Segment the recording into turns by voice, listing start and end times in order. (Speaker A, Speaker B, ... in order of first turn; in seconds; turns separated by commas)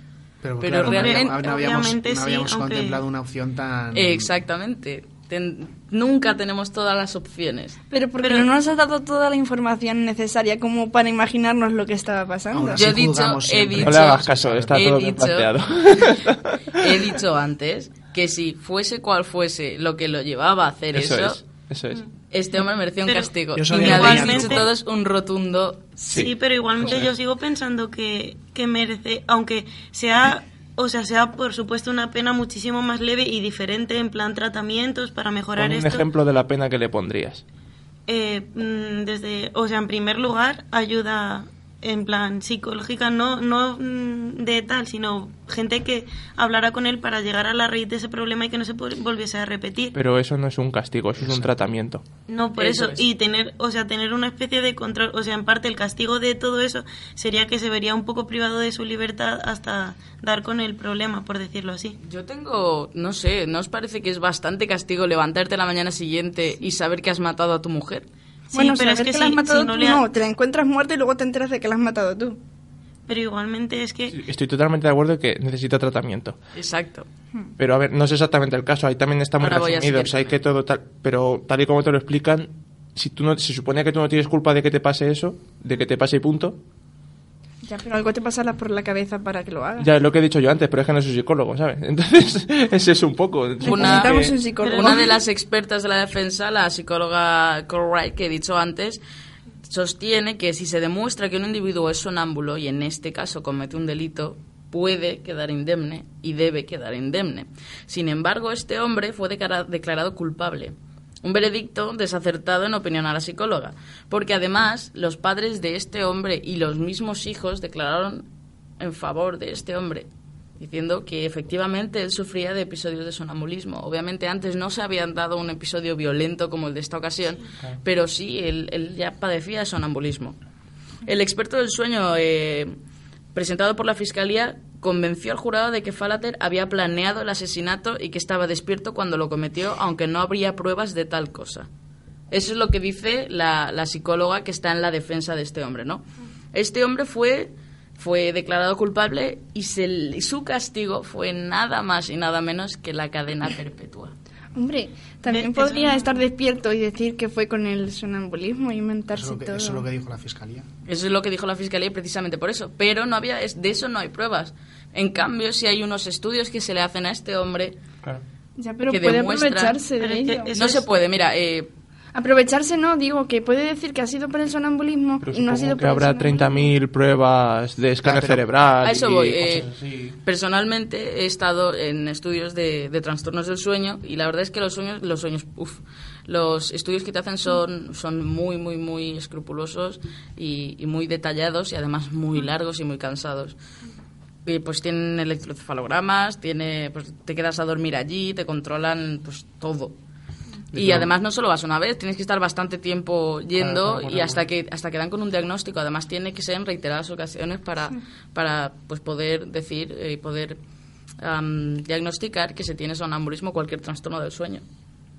Speaker A: 0.4-4.3, Speaker B: 0.6-1.4, Speaker C: 0.8-3.0, Speaker B: 3.9-7.8, Speaker D: 7.9-12.9, Speaker C: 8.2-8.5, Speaker A: 12.5-14.8, Speaker B: 12.8-16.2, Speaker E: 13.8-17.1, Speaker B: 16.8-21.4, Speaker E: 20.9-22.0, Speaker B: 22.3-26.2, Speaker C: 23.1-24.7, Speaker A: 23.6-24.7, Speaker E: 26.1-27.1, Speaker C: 26.1-36.1, Speaker E: 35.6-37.4, Speaker C: 38.1-50.0, Speaker E: 49.9-52.0, Speaker A: 51.2-51.5, Speaker C: 52.3-62.0, Speaker B: 52.6-53.1, Speaker B: 62.0-68.1, Speaker C: 68.5-70.1, Speaker D: 68.5-72.4, Speaker C: 73.1-74.2, Speaker E: 74.1-76.4, Speaker B: 76.5-77.1, Speaker E: 77.6-86.6, Speaker B: 79.4-80.3, Speaker D: 87.7-89.9, Speaker E: 89.8-94.4, Speaker D: 93.6-95.2, Speaker B: 93.6-99.0, Speaker C: 94.6-94.9, Speaker B: 99.7-118.3, Speaker B: 118.8-120.1, Speaker B: 120.6-130.4, Speaker B: 131.1-132.8, Speaker B: 133.3-141.7, Speaker B: 142.3-154.1, Speaker D: 154.6-159.8, Speaker C: 155.3-156.2, Speaker A: 159.1-160.7, Speaker B: 160.9-167.8, Speaker D: 168.6-170.5, Speaker B: 168.9-169.8, Speaker C: 170.0-170.9, Speaker B: 170.5-171.7, Speaker D: 172.2-176.7, Speaker E: 175.2-180.2, Speaker A: 178.1-178.4, Speaker B: 178.8-179.7, Speaker B: 180.2-193.6, Speaker B: 194.4-199.9, Speaker B: 200.7-210.6, Speaker E: 200.8-201.1, Speaker E: 203.6-204.4, Speaker B: 211.2-214.7